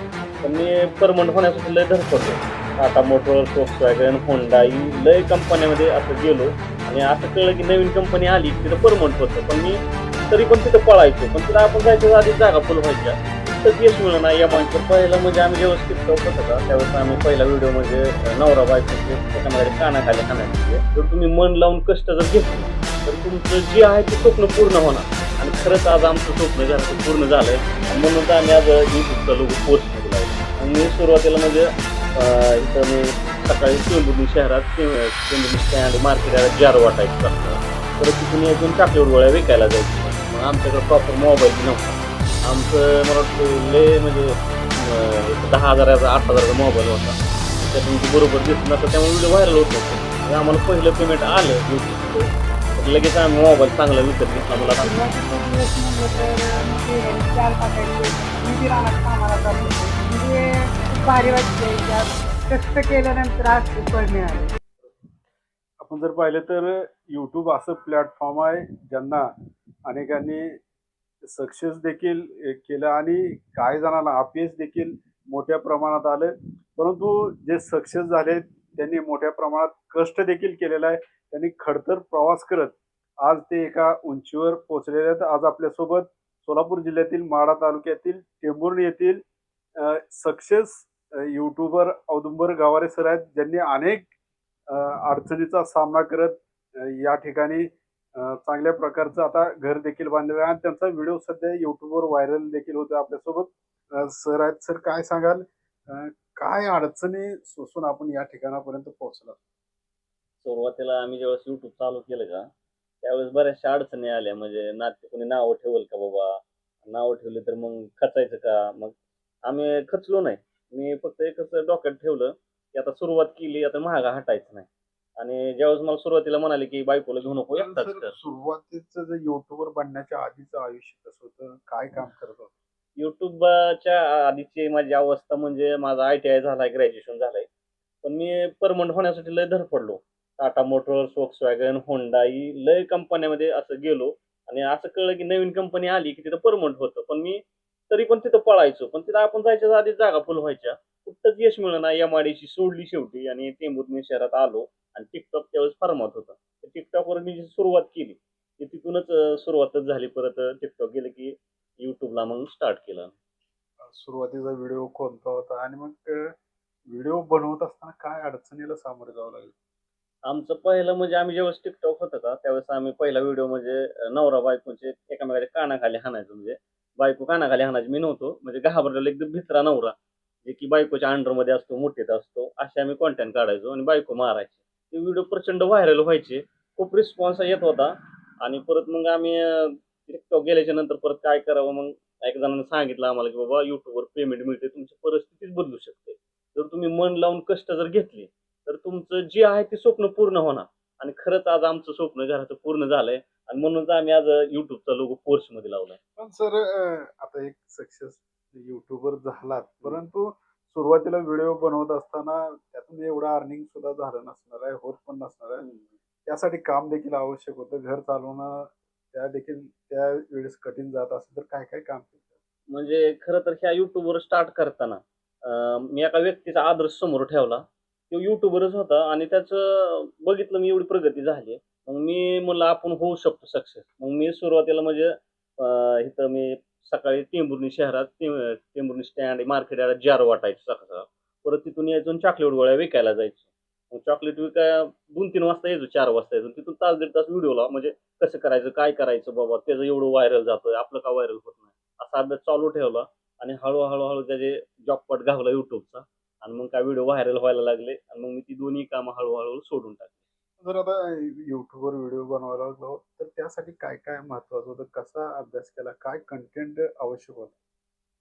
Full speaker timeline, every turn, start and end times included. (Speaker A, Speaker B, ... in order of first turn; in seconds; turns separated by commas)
Speaker A: 0.4-54.9, Speaker B: 54.5-64.5, Speaker C: 65.8-69.3, Speaker C: 69.8-70.6, Speaker C: 71.2-89.2, Speaker C: 89.8-94.1, Speaker C: 94.7-109.4, Speaker A: 110.4-112.5, Speaker A: 113.0-118.9, Speaker A: 119.5-128.1, Speaker C: 127.5-132.5, Speaker A: 133.0-137.5, Speaker A: 138.0-163.1, Speaker C: 163.8-166.3, Speaker C: 166.9-169.5, Speaker A: 170.2-206.0, Speaker C: 206.2-215.6, Speaker A: 215.6-215.8, Speaker C: 216.2-222.2, Speaker A: 222.7-260.1, Speaker C: 260.6-267.5